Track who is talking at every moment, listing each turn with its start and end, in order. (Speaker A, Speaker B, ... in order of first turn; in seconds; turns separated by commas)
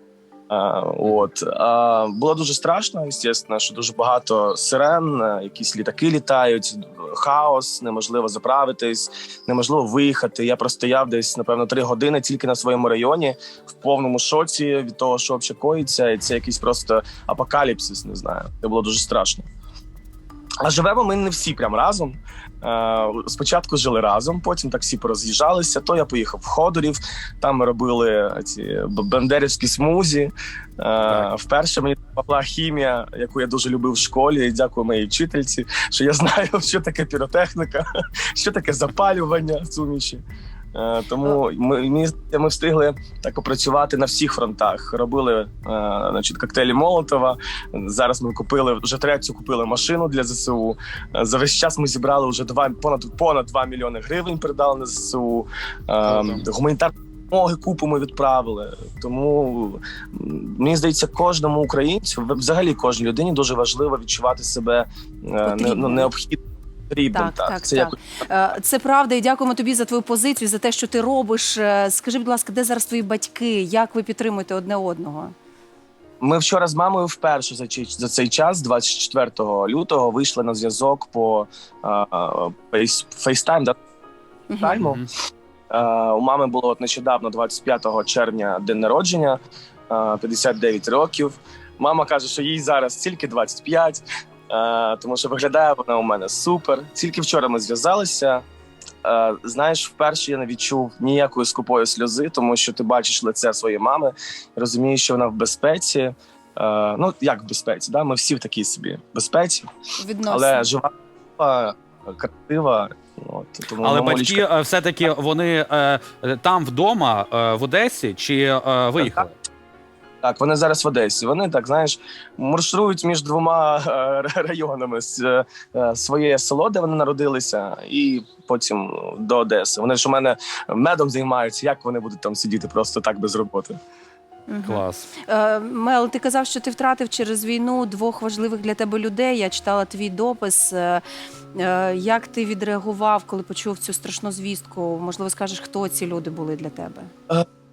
Speaker A: 0.5-19.4, Speaker A: 20.6-40.2, Speaker A: 40.8-68.0, Speaker B: 56.0-56.5, Speaker C: 65.4-66.1, Speaker C: 67.1-75.3, Speaker A: 76.2-83.8, Speaker C: 84.5-84.8, Speaker A: 84.6-85.0, Speaker B: 84.8-85.0, Speaker A: 85.7-89.4, Speaker A: 89.9-98.4, Speaker A: 99.0-109.7, Speaker C: 110.0-110.7, Speaker A: 110.3-114.5, Speaker B: 113.8-119.3, Speaker A: 119.0-119.2, Speaker A: 120.2-133.8, Speaker C: 134.5-141.0, Speaker B: 134.7-135.1, Speaker C: 141.6-147.1